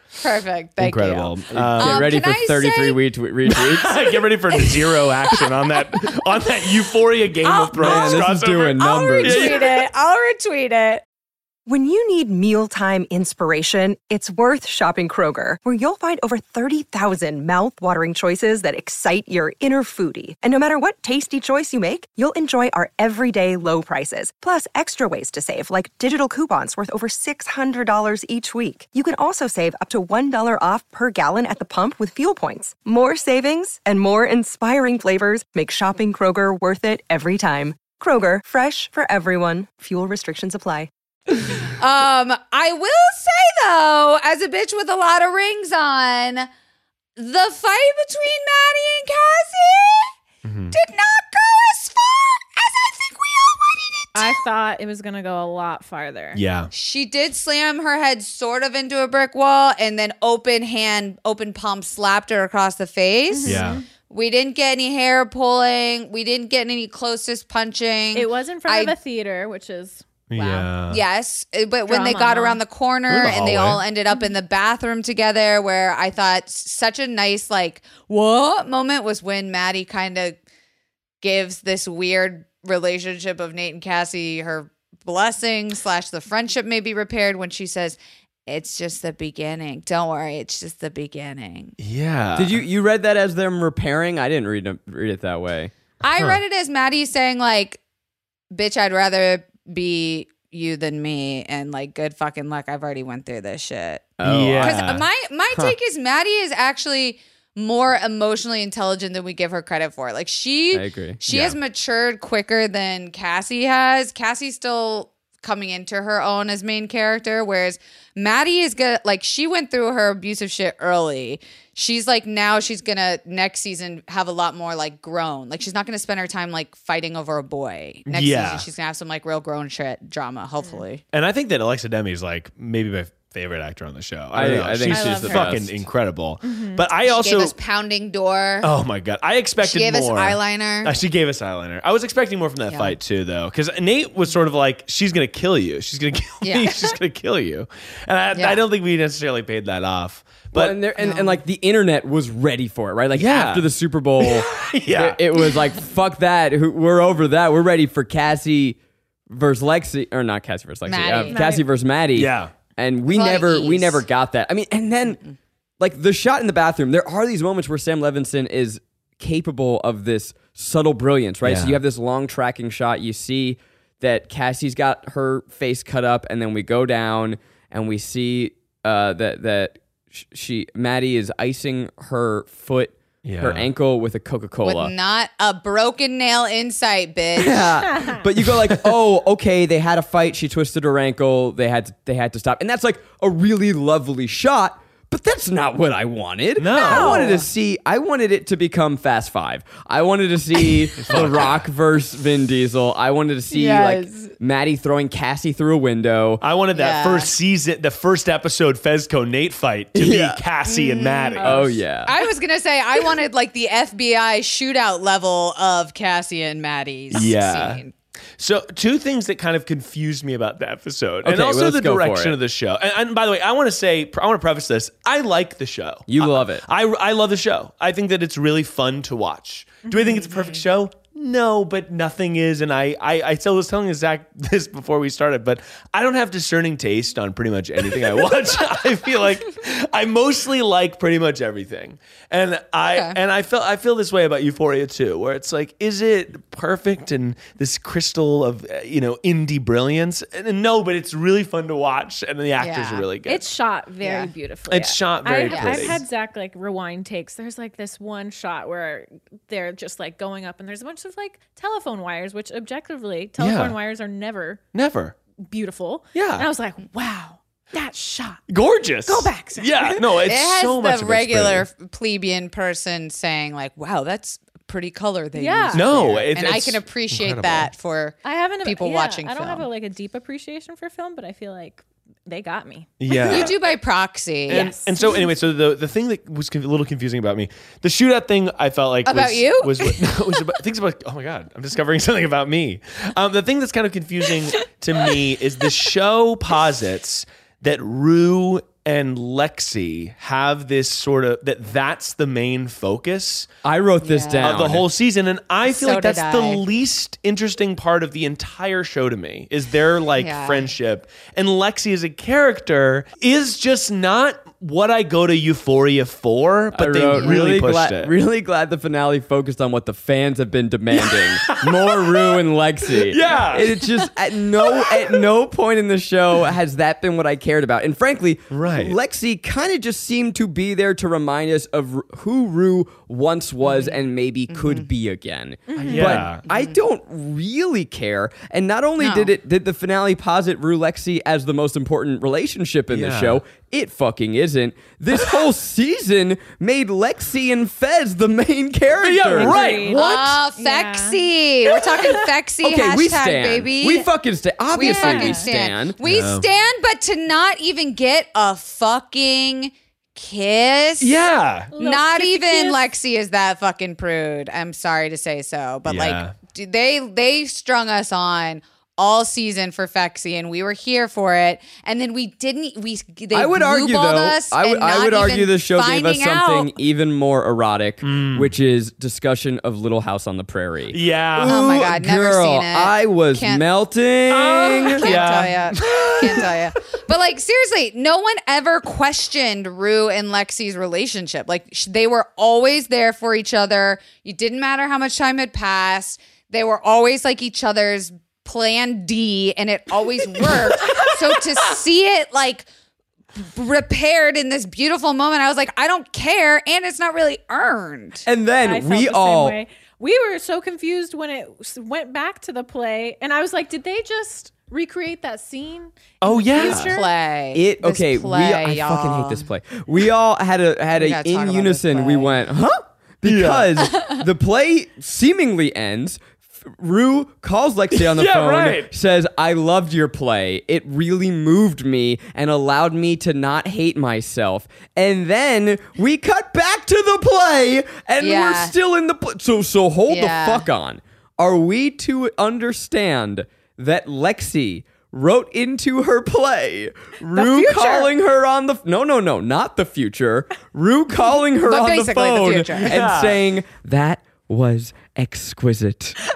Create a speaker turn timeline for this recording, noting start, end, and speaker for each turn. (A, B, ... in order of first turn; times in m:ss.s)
0:00.2-0:03.0 A
0:00.8-0:02.0 B
0:01.5-0:04.0 C
0:03.5-0:09.8 B
0:07.4-0:11.0 A
0:07.8-0:09.6 C
0:11.7-0:40.9 D
0:41.3-0:46.5 A
0:47.2-0:50.1 A
0:50.4-0:50.8 B
0:50.7-0:54.4 A
0:54.2-0:56.4 E
0:56.3-0:56.7 B
0:56.7-1:09.0 A
1:03.3-1:03.8 E
1:03.4-1:03.8 B
1:08.2-1:10.0 E
1:10.3-1:11.0 B
1:10.4-1:20.4 A
1:11.9-1:12.6 E
1:13.1-1:13.8 B
1:21.2-1:31.8 A
1:31.8-1:32.6 B
1:32.4-1:35.7 C
1:36.0-1:37.8 A
1:36.1-1:36.4 B
1:38.5-2:11.0 A
1:44.2-1:44.8 C
1:44.2-1:45.1 B
1:50.7-1:51.2 C
1:51.3-1:51.6 B
2:08.1-2:08.7 B
2:11.1-2:17.5 B
2:14.3-2:15.8 C
2:14.9-2:15.6 E
2:16.4-2:16.9 E
2:17.0-2:18.7 A
2:18.6-2:30.8 B
2:19.6-2:21.0 A
2:22.7-2:23.0 A
2:26.4-2:26.9 A
2:28.3-2:28.6 A
2:30.5-2:38.8 C
2:31.0-2:31.4 A
2:33.1-2:33.7 B
2:34.2-2:35.5 B
2:39.3-2:45.2 C
2:40.9-2:41.4 A
2:41.3-2:41.7 E
2:42.2-2:42.5 B
2:43.1-2:44.0 A
2:45.8-3:04.9 C
2:51.4-2:51.8 B
3:03.2-3:03.7 B
3:04.6-3:07.8 A
3:07.4-3:26.4 C
3:16.6-3:17.3 B
3:16.8-3:17.3 E
3:16.9-3:17.2 A
3:21.0-3:21.6 B
3:23.5-3:24.3 A
3:26.4-3:31.8 B
3:26.7-3:27.3 A
3:30.0-3:30.4 C
3:30.7-3:37.9 A
3:31.4-3:32.1 C
3:37.1-3:37.8 B
3:38.4-4:13.4 B
3:41.2-3:42.4 C
3:46.1-3:46.6 C
3:49.9-3:50.3 E
4:02.9-4:03.2 A
4:12.6-4:13.1 A
4:13.3-4:24.6 E
4:14.0-4:14.3 A
4:14.7-4:16.0 B
4:15.5-4:15.9 A
4:23.4-4:23.8 B
4:24.7-4:25.2 B
4:25.4-4:28.4 E
4:26.2-4:26.5 B
4:28.5-4:31.7 B
4:29.0-4:30.0 E
4:30.2-4:39.7 A
4:35.4-4:35.9 E
4:35.7-4:37.7 B
4:38.2-4:43.6 E
4:43.0-4:43.6 B
4:43.2-4:44.8 A
4:44.5-4:45.3 E
4:44.5-5:03.5 B
4:49.1-4:50.1 A
5:03.6-5:04.9 C
5:04.0-5:04.7 A
5:04.4-5:18.1 B
5:05.7-5:06.6 A
5:10.2-5:10.7 A
5:16.7-5:49.6 C
5:21.0-5:22.4 B
5:23.0-5:23.8 B
5:28.5-5:29.0 B
5:33.6-5:34.0 A
5:34.5-5:34.9 A
5:35.7-5:36.3 E
5:35.8-5:36.4 B
5:36.4-5:36.8 A
5:39.0-5:39.3 A
5:42.9-5:43.4 B
5:49.0-5:50.4 B
5:49.3-5:52.1 E
5:49.9-5:54.1 A
5:52.6-5:56.0 C
5:54.7-6:01.2 A
5:54.8-5:55.4 E
5:56.0-5:56.5 B
6:01.0-6:01.7 B
6:01.7-6:02.8 E
6:01.8-6:16.7 A
6:05.9-6:06.3 B
6:13.3-6:25.1 C
6:18.0-6:18.5 B
6:20.9-6:21.7 B
6:21.5-6:23.6 A
6:24.3-6:26.5 B
6:24.9-6:42.7 A
6:43.4-6:48.3 A
6:48.3-6:49.6 C
6:48.6-6:57.1 E
6:56.2-6:57.0 B
6:56.6-6:59.4 A
6:57.5-7:36.2 C
7:01.0-7:02.4 A
7:03.2-7:03.7 B
7:08.1-7:08.9 B
7:18.2-7:18.7 A
7:20.1-7:20.7 A
7:27.3-7:28.1 E
7:31.6-7:33.0 A
7:32.8-7:33.4 B